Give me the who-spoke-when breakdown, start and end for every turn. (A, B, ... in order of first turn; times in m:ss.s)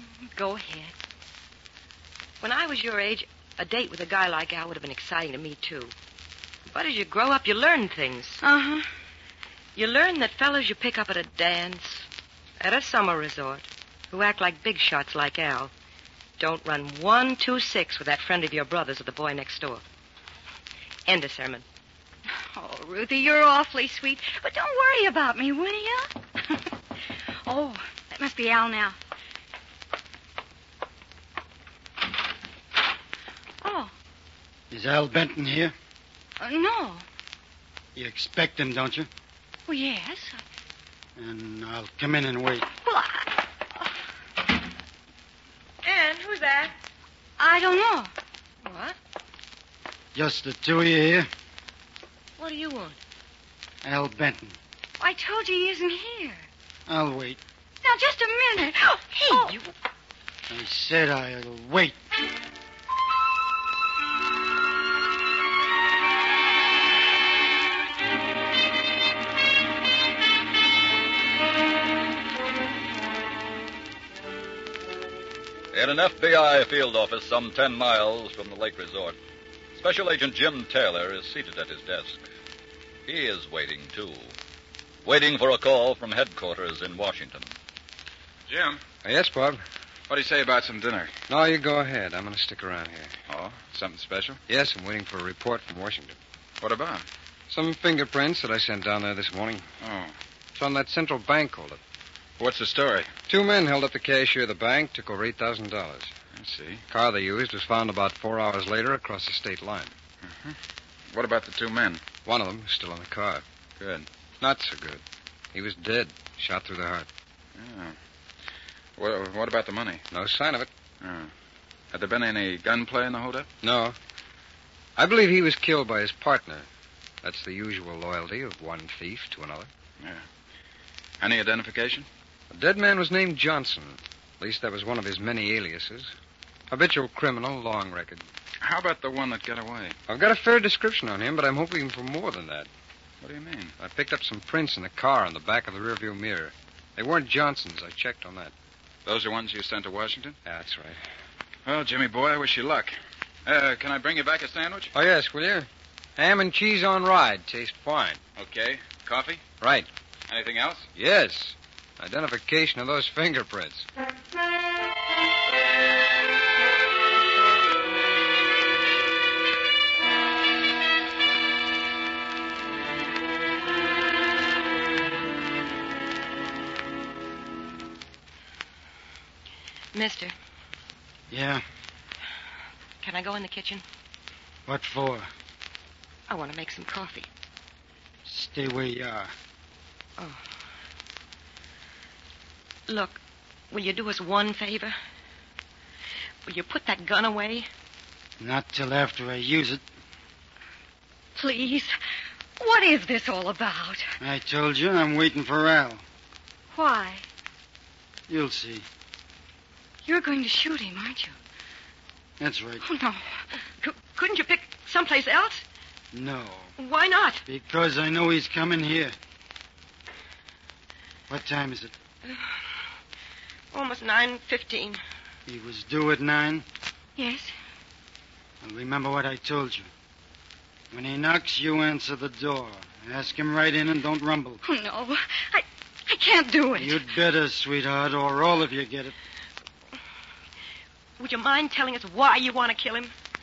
0:00.2-0:00.9 A
0:02.4-0:05.9 B
0:06.7-0:08.4 B
0:08.4-0:08.9 A
0:09.8-0:12.1 B
0:12.6-0:15.7 B
0:16.4-0:19.8 B
0:21.1-0:21.6 B
0:22.5-0:26.6 A
0:27.5-0:29.0 A
0:33.6-0:33.9 A
0:34.7-0:35.8 C
0:36.4-0:37.1 A
0:38.0-0:39.1 C
0:39.7-0:40.4 A
0:41.2-0:42.7 C
0:42.8-0:43.3 A
0:45.8-0:46.8 B
0:47.4-0:48.1 A
0:48.6-0:49.0 B
0:50.2-0:51.3 C
0:52.4-0:53.0 B
0:53.8-0:54.6 C
0:55.0-0:56.5 A
0:56.9-0:57.4 C
0:57.8-0:59.5 A
0:59.3-0:59.7 B
1:00.5-1:02.0 C
1:15.7-1:19.2 D
1:19.8-1:22.2 D
1:23.1-1:24.4 D
1:25.0-1:27.5 D
1:28.5-1:28.8 E
1:29.0-1:29.6 F
1:30.1-1:31.1 E
1:31.3-1:33.1 F
1:33.3-1:34.4 E
1:34.5-1:36.2 F
1:36.6-1:37.0 E
1:37.5-1:39.7 F
1:39.8-1:40.1 E
1:40.6-1:41.8 F
1:42.4-1:43.1 E
1:43.3-1:46.2 F
1:46.3-1:46.8 E
1:46.9-1:49.9 F
1:50.3-1:50.6 E
1:51.1-1:52.0 E
1:52.2-1:53.4 F
1:53.8-1:54.1 E
1:54.4-1:55.0 F
1:55.5-1:57.1 F
1:57.6-1:58.0 E
1:59.0-2:00.0 E
2:00.1-2:00.7 F
2:01.0-2:01.3 E
2:01.9-2:03.5 E
2:03.6-2:04.0 F
2:05.0-2:06.7 F
2:07.2-2:09.7 F
2:11.2-2:12.1 E
2:12.5-2:16.1 F
2:16.7-2:18.2 F
2:18.6-2:20.0 E
2:20.1-2:22.7 F
2:23.2-2:23.8 E
2:23.8-2:28.5 F
2:29.0-2:30.4 E
2:30.4-2:31.0 F
2:31.7-2:34.9 E
2:34.9-2:38.2 F
2:38.4-2:39.4 E
2:39.6-2:39.9 F
2:40.3-2:40.9 E
2:41.0-2:43.9 F
2:59.9-3:00.3 B
3:01.3-3:01.6 C
3:03.0-3:03.8 B
3:04.7-3:05.3 C
3:06.3-3:07.3 B
3:08.3-3:09.3 C
3:12.9-3:13.2 B
3:13.7-3:15.0 B
3:16.5-3:17.7 B
3:18.4-3:19.8 C
3:21.4-3:21.9 A
3:22.6-3:24.1 A
3:24.2-3:26.0 C
3:26.7-3:27.2 A
3:28.3-3:28.9 C
3:30.0-3:31.4 A
3:32.4-3:32.8 C
3:32.8-3:33.4 A
3:33.8-3:35.6 B
3:36.1-3:36.7 C
3:36.8-3:37.4 B
3:37.5-3:39.2 C
3:41.3-3:41.9 C
3:43.7-3:45.0 B
3:45.5-3:46.7 C
3:47.2-3:47.5 A
3:48.6-3:49.9 C
3:50.9-3:54.6 C
3:54.6-3:57.0 A
3:56.8-3:59.2 C
4:01.2-4:03.1 B